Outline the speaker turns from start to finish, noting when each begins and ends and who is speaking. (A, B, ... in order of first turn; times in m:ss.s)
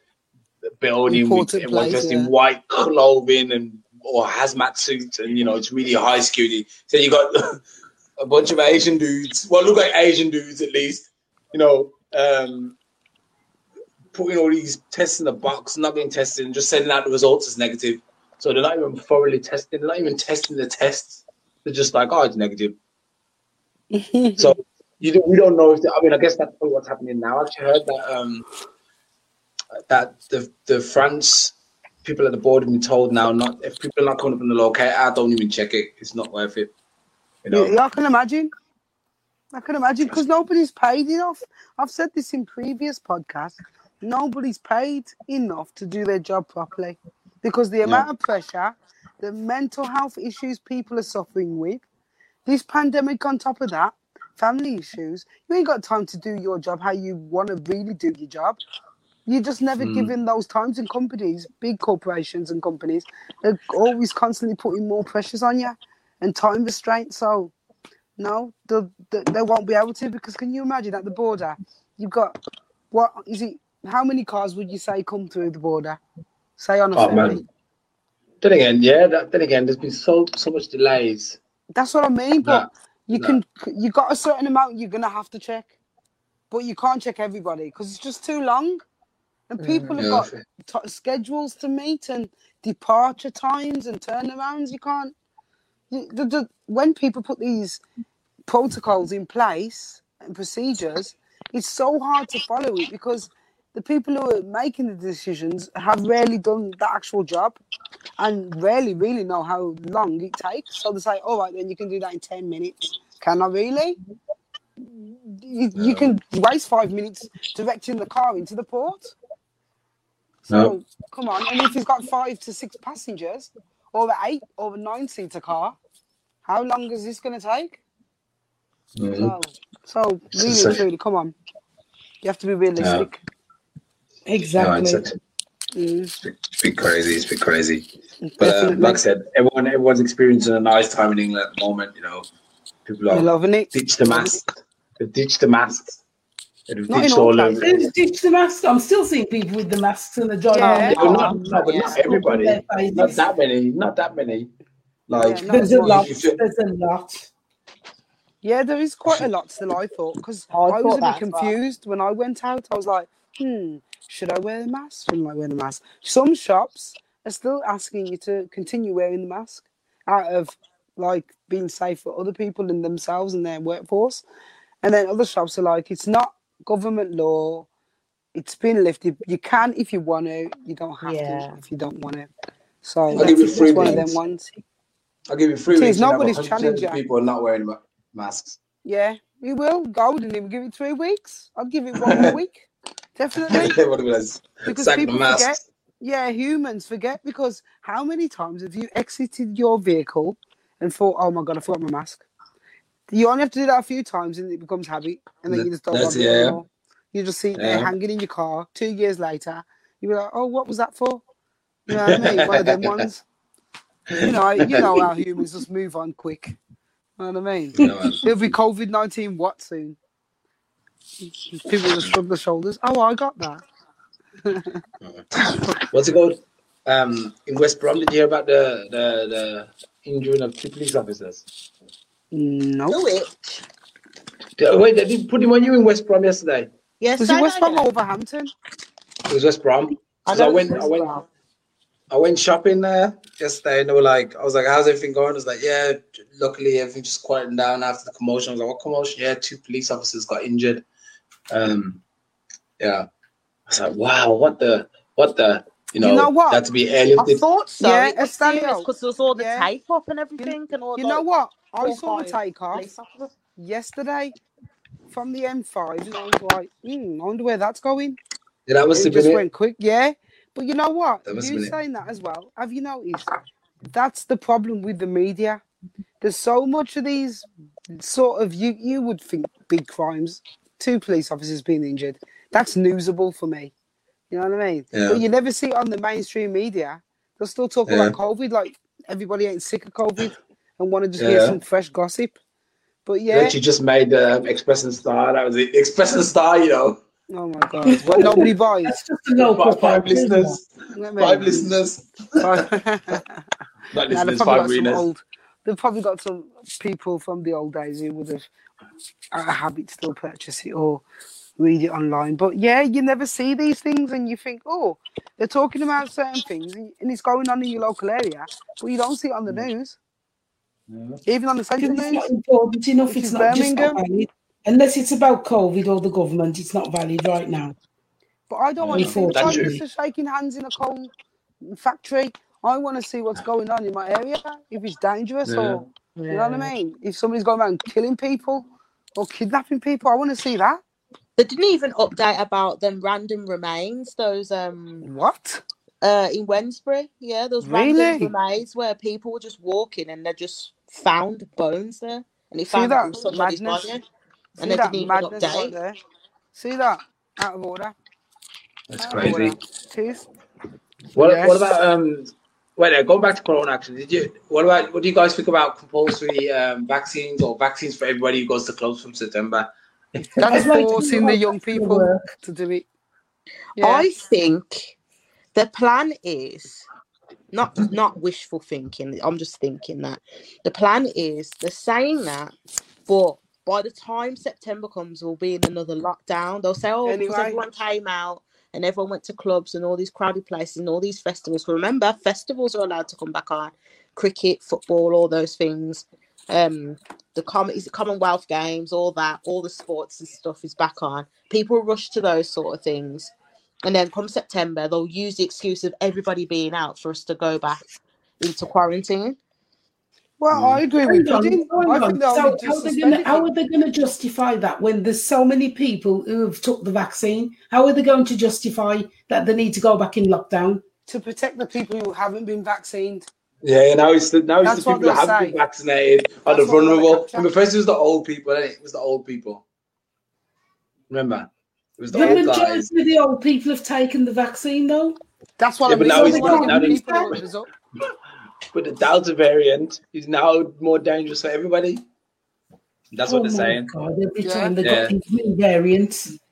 0:00.8-0:07.6 A
0:01.1-0:02.3 B
0:08.2-0:12.8 A
0:14.1-0:22.8 A
0:23.9-0:24.6 B
0:24.4-0:28.4 A
0:29.9-0:36.7 A
0:37.4-0:37.8 A
0:37.5-0:38.5 B
0:39.5-0:51.8 B
0:52.4-0:58.6 B
0:59.2-1:07.5 B
0:59.8-1:00.1 A
1:08.2-1:12.4 B
1:12.9-1:16.0 B
1:16.6-1:17.4 B
1:17.0-1:17.4 A
1:18.4-1:21.4 A
1:21.7-1:25.7 B
1:22.4-1:23.4 A
1:26.5-1:28.8 B
1:29.5-1:35.1 B
1:29.6-1:30.0 C
1:30.0-1:30.4 A
1:35.9-1:37.8 B
1:38.5-1:47.6 B
1:48.2-1:54.0 B
1:54.8-1:59.1 B
1:55.7-1:56.1 A
2:00.5-2:05.8 B
2:06.4-2:07.8 B
2:09.0-2:09.3 A
2:09.2-2:11.3 B
2:10.3-2:10.8 A
2:12.2-2:13.2 B
2:12.8-2:13.0 A
2:14.2-2:15.0 D
2:14.6-2:15.2 A
2:15.7-2:16.1 B
2:16.2-2:17.8 A
2:18.3-2:19.0 B
2:18.4-2:22.3 A
2:22.8-2:26.0 A
2:23.1-2:24.4 B
2:26.7-2:27.8 A
2:26.9-2:27.7 B
2:27.6-2:33.2 D
2:30.5-2:31.4 B
2:30.9-2:32.0 C
2:30.9-2:34.5 A
2:35.1-2:36.4 A
2:35.1-2:36.1 B
2:35.5-2:37.3 D
2:38.4-2:54.2 B
2:40.5-2:41.5 C
2:54.8-2:57.7 B
2:58.3-3:02.3 B
3:01.0-3:01.6 C
3:02.8-3:04.5 B
3:03.1-3:04.1 D
3:03.1-3:04.1 A
3:05.3-3:08.6 A
3:05.7-3:07.0 B
3:08.8-3:13.8 B
3:12.0-3:12.4 A
3:13.4-3:15.6 A
3:14.6-3:22.2 B
3:23.1-3:31.2 B
3:25.5-3:26.6 A
3:27.6-3:27.9 A
3:31.9-3:33.2 B
3:32.0-3:33.0 A
3:34.1-3:35.1 A
3:34.2-3:36.6 B
3:37.2-3:40.0 B
3:37.8-3:38.5 A
3:41.2-3:43.6 B
3:44.4-3:44.8 B
3:45.9-3:51.4 A
3:52.3-3:53.0 B
3:52.9-3:53.6 C
3:54.6-3:56.7 A
3:57.0-3:57.8 C
3:57.2-3:58.5 B
3:59.3-4:01.2 A
4:00.3-4:01.3 C
4:02.1-4:10.8 A
4:11.5-4:12.0 A
4:12.8-4:13.1 A
4:13.7-4:17.4 A
4:16.0-4:16.6 B
4:17.2-4:21.2 C
4:17.8-4:19.7 B
4:20.4-4:22.9 B
4:21.8-4:23.3 C
4:23.6-4:24.3 B
4:25.1-4:28.2 B
4:28.6-4:29.4 A
4:28.9-4:33.3 B
4:31.2-4:31.7 A
4:33.9-4:35.6 B
4:36.2-4:43.7 B
4:44.3-4:52.4 B
4:44.9-4:45.2 A
4:47.9-4:48.1 A
4:51.2-4:51.6 A
4:53.0-4:53.6 B
4:53.3-4:57.0 A
4:57.3-4:58.9 B
4:57.9-5:00.6 D
4:59.4-5:02.6 A
5:00.9-5:01.7 B
5:02.4-5:03.4 B
5:03.9-5:05.0 A
5:04.1-5:08.5 B
5:09.3-5:11.0 B
5:11.6-5:20.0 B
5:20.9-5:21.2 A
5:21.2-5:22.3 B
5:21.8-5:27.7 D
5:23.1-5:24.0 B
5:28.5-5:31.1 B
5:28.8-5:29.7 A
5:28.9-5:29.8 D
5:31.6-5:40.8 B
5:35.4-5:35.8 A
5:36.2-5:36.7 C
5:41.4-5:45.0 C
5:45.0-5:45.6 B
5:46.0-5:54.0 C
5:47.6-5:48.3 B
5:52.7-5:53.9 B
5:54.6-5:55.7 C
5:54.6-5:56.0 B
5:56.5-5:57.9 B
5:58.9-5:59.6 A
5:59.0-6:00.2 B
6:01.1-6:01.7 B
6:01.1-6:09.7 A
6:10.2-6:12.8 B
6:10.4-6:10.7 A
6:10.5-6:12.3 D
6:13.8-6:14.1 B
6:13.8-6:14.9 C
6:15.5-6:16.8 C
6:17.5-6:22.5 C
6:23.0-6:47.8 C
6:27.0-6:27.6 B
6:48.4-6:49.4 C
6:50.4-6:53.5 B
6:50.5-6:50.8 A
6:51.0-7:00.8 D
7:01.1-7:03.2 B
7:03.6-7:09.6 A
7:04.6-7:05.6 B
7:06.4-7:07.5 B
7:11.1-7:12.8 A
7:12.1-7:15.2 D
7:12.1-7:12.4 B
7:15.6-7:17.7 B
7:15.8-7:17.4 A
7:16.1-7:17.4 D
7:18.7-7:22.0 A
7:23.1-7:23.9 A
7:23.2-7:26.3 D
7:24.4-7:24.7 B
7:24.8-7:25.1 A